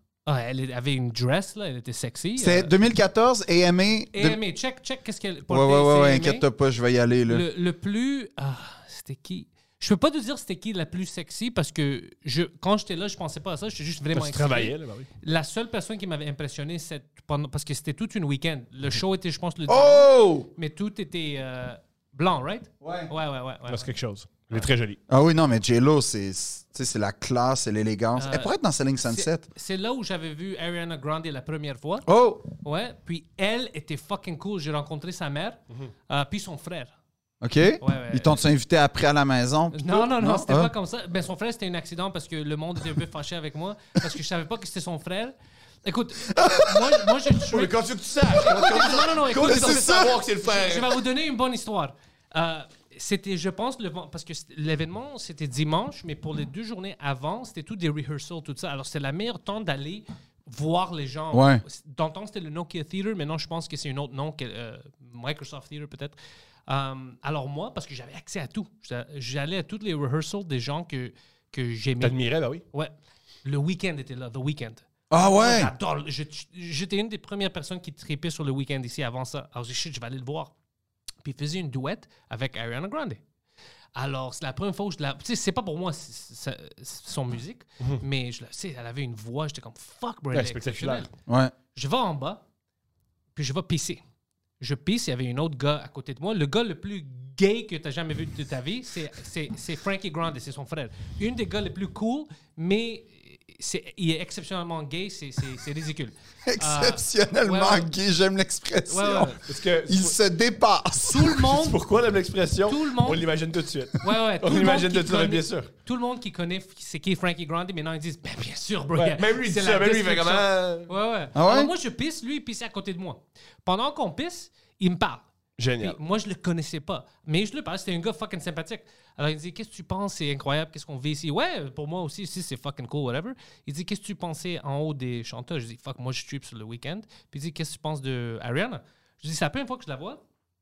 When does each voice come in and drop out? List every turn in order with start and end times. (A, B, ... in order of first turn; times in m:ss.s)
0:00.3-0:02.7 A
0:02.4-0:04.4 B
0:04.1-0:06.4 A
0:05.5-0:07.4 B
0:07.3-0:23.9 A
0:14.1-0:15.1 C
0:19.7-0:20.5 B
0:22.8-0:23.1 B
0:23.7-0:25.0 C
0:25.1-0:29.5 B
0:28.2-0:28.5 A
0:29.0-0:32.1 A
0:32.1-0:32.5 B
0:32.6-0:37.0 A
0:37.4-0:40.7 B
0:37.8-0:38.4 A
0:39.7-0:47.7 A
0:46.3-0:47.2 B
0:47.5-0:51.0 C
0:48.4-1:06.2 A
0:49.4-0:50.2 B
1:01.3-1:01.6 B
1:06.7-1:12.2 A
1:12.0-1:12.6 C
1:13.4-1:20.5 A
1:15.1-1:15.7 B
1:21.2-1:23.2 A
1:24.0-1:31.1 A
1:30.3-1:31.1 C
1:31.3-1:31.5 B
1:31.8-1:32.4 A
1:33.4-1:34.0 A
1:34.6-1:47.9 A
1:46.5-1:51.5 B
1:48.9-1:49.4 A
1:49.4-1:50.2 C
1:51.1-1:51.8 A
1:51.4-1:55.7 C
1:52.7-1:53.3 A
1:54.0-2:05.3 A
1:59.0-2:00.9 C
2:01.4-2:01.7 B
2:05.6-2:06.0 C
2:05.8-2:20.2 A